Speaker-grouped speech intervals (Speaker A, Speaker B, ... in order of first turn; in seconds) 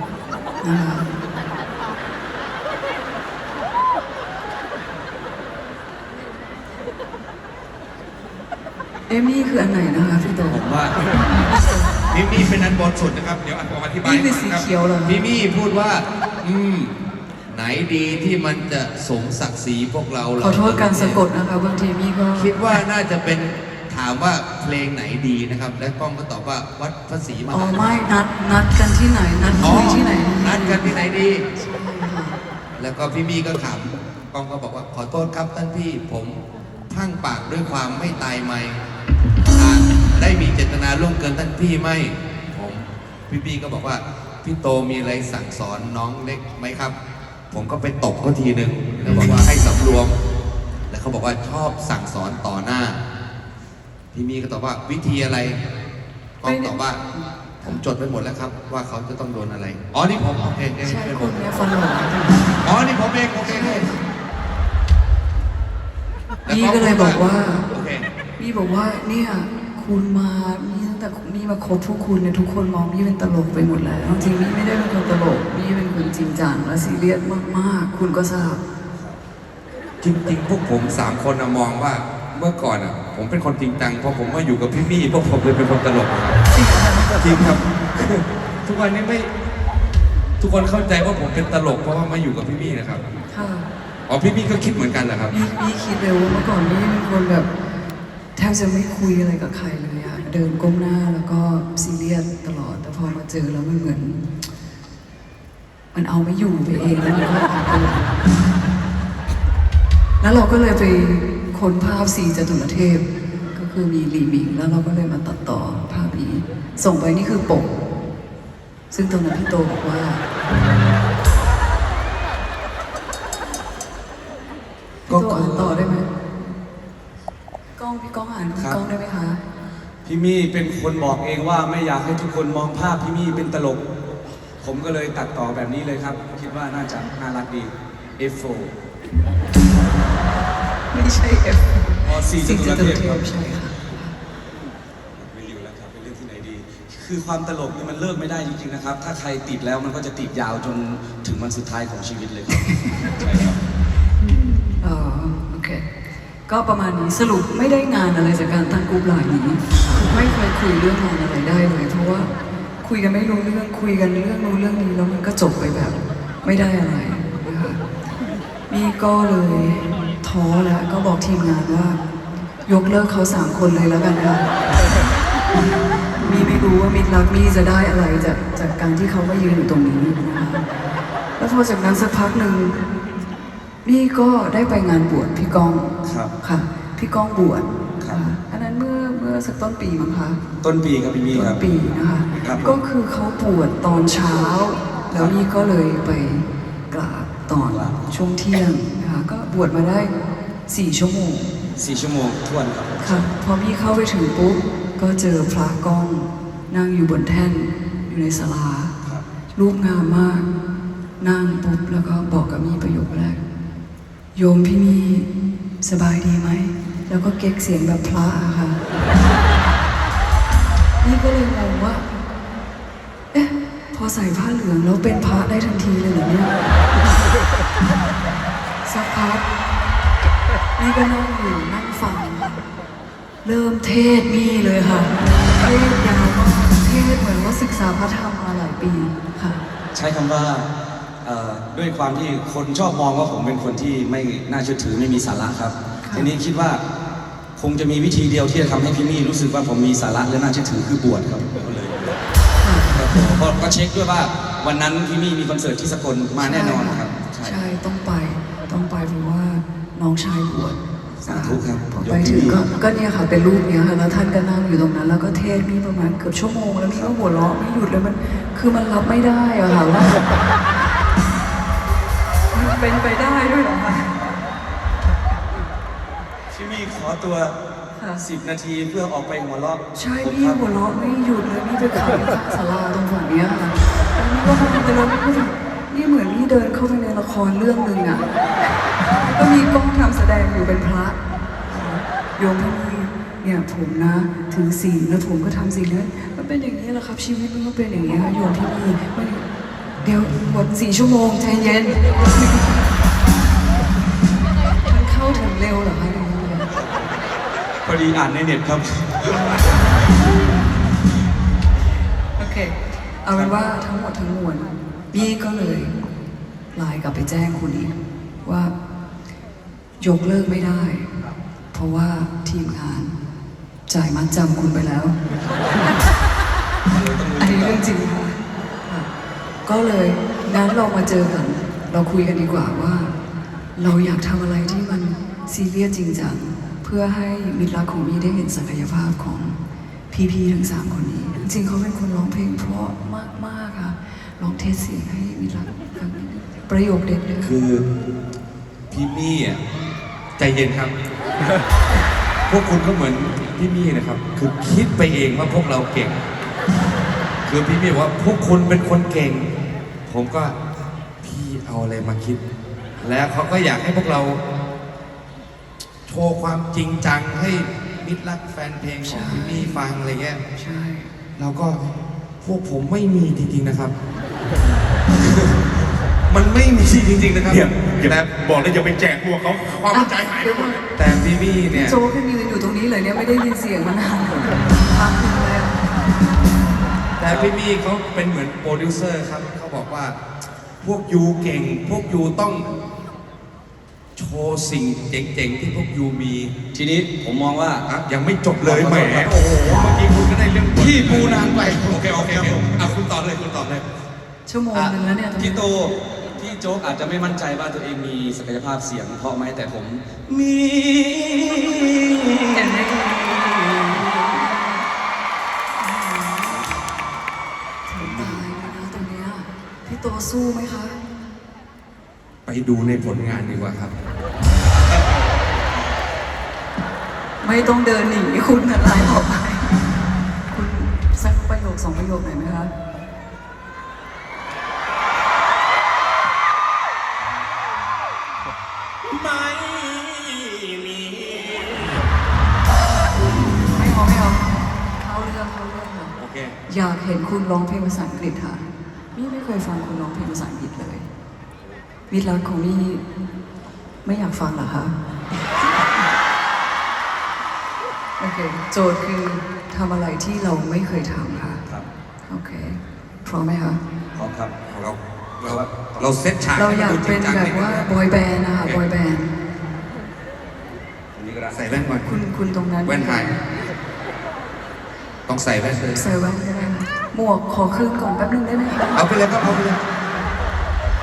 Speaker A: 0.6-1.1, 9.1-10.6, 11.2-11.9, 14.0-15.3, 20.4-22.8, 27.5-32.4, 49.0-49.4, 56.4-57.8, 60.8-62.6, 63.4-64.0, 66.4-67.7, 68.4-78.6, 86.5-87.6, 93.3-93.7, 95.3-97.5, 98.3-104.2, 105.9-108.3, 110.2-117.7, 118.9-120.2, 125.1-126.1, 127.8-129.4, 140.9-144.2, 152.5-152.9, 154.8-155.8, 156.5-167.8, 168.7-172.0, 172.7-174.5, 176.2-180.6, 181.4-182.8, 183.8-190.4, 191.3-200.1, 200.7-201.5, 203.0-208.9, 209.5-210.4, 211.2-213.4, 214.3-215.3, 215.8-218.8, 221.0-222.1, 223.3-226.7, 228.8-229.4, 230.8-232.6, 233.4-239.6, 246.1-246.3, 252.6-253.0, 256.4-270.2, 272.5-274.1, 278.0-278.2, 279.9-288.3, 289.0-291.2, 291.8-299.4, 300.0-302.8, 304.8-306.7, 312.4-315.9, 316.7-318.7, 320.0-321.1, 321.7-323.1, 323.9-325.1, 327.4-329.1, 329.6-333.1, 333.8-339.6, 340.1-347.6, 369.0-369.8, 370.6-371.1, 379.9-380.8, 381.7-385.8, 404.5-405.6, 412.5-413.3, 414.1-414.9, 415.8-416.8, 417.9-421.0, 427.4-429.7, 430.5-432.7, 443.6-444.5, 445.0-446.1, 446.7-451.1, 452.1-453.0, 454.0-454.9, 458.2-461.6, 462.3-463.8, 466.6-469.3, 471.7-473.4, 475.9-479.1
Speaker B: 10.5-10.9, 12.1-16.9, 17.5-21.2, 22.3-28.0, 29.6-31.4, 32.8-38.8, 39.5-47.0, 47.5-50.1, 50.9-53.0, 54.1-55.6, 56.4-57.0, 57.6-61.5, 62.6-63.9, 66.5-68.1, 80.0-86.4, 87.2-89.3, 90.4-93.0, 94.1-95.3, 125.1-125.9, 347.4-347.8, 348.9-349.6, 350.4-350.9, 352.5-356.1, 357.4-359.4, 360.1-360.6, 361.2-362.4, 363.0-364.4, 366.1-370.4, 371.4-371.8, 372.4-373.9, 375.2-375.6, 376.3-378.3, 380.9-382.0, 387.2-390.1, 390.8-392.7, 394.1-396.5, 397.9-403.8, 418.0-418.4, 422.4-423.9, 446.2-446.6, 464.7-467.9, 471.5-472.2, 472.8-473.3, 475.3-476.0, 478.9-479.8
Speaker C: 78.9-79.2, 130.0-133.8, 134.6-138.7, 142.0-143.2, 145.2-153.6, 186.0-186.3, 190.6-191.6, 192.3-192.8, 197.7-198.1, 201.8-203.3, 239.9-240.7, 241.2-246.8, 247.6-252.2, 252.9-257.6, 261.2-262.6, 266.9-267.1, 276.5-277.5, 278.2-280.6, 306.7-307.1, 307.8-309.5, 326.9-327.8, 387.2-387.5, 396.7-397.9, 398.6-399.8, 400.8-402.5, 405.4-414.0, 464.1-464.5, 465.4-466.1, 471.1-471.6
Speaker D: 377.4-380.8, 401.5-402.8, 439.1-441.8